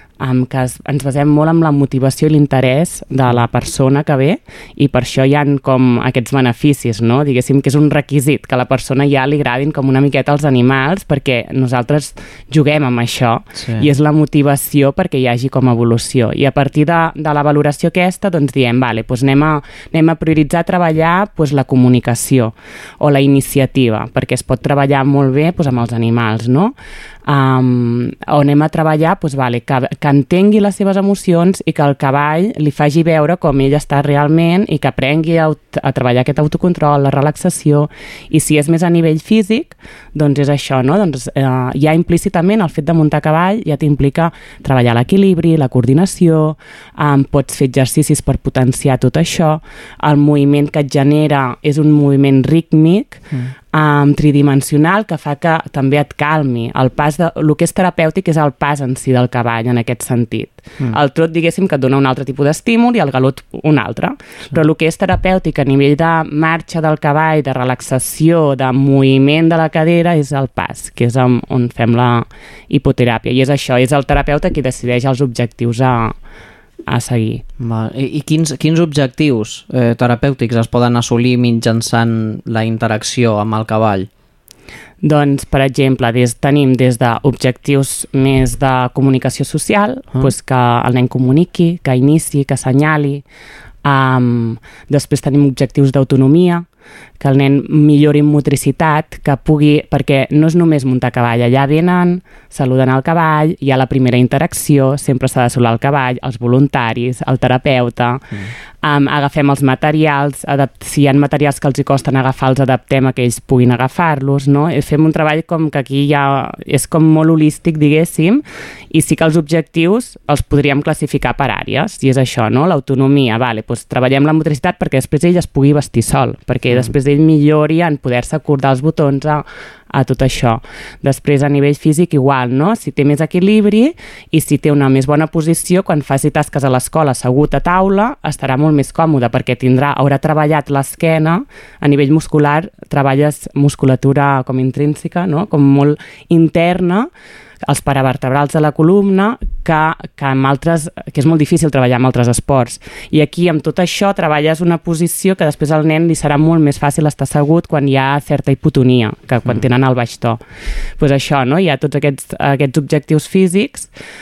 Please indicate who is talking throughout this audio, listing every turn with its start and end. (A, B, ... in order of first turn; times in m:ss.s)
0:00.2-0:26.8 A
0:13.6-0:13.9 B
0:27.3-0:53.2 A
0:53.7-1:16.2 A
1:16.9-1:17.4 A
1:17.6-1:24.1 B
1:25.0-1:33.2 A
1:33.8-1:36.7 A
1:37.2-1:48.2 A
1:48.8-2:27.1 A
2:06.7-2:06.9 B
2:27.6-2:40.4 A
2:41.0-2:43.9 A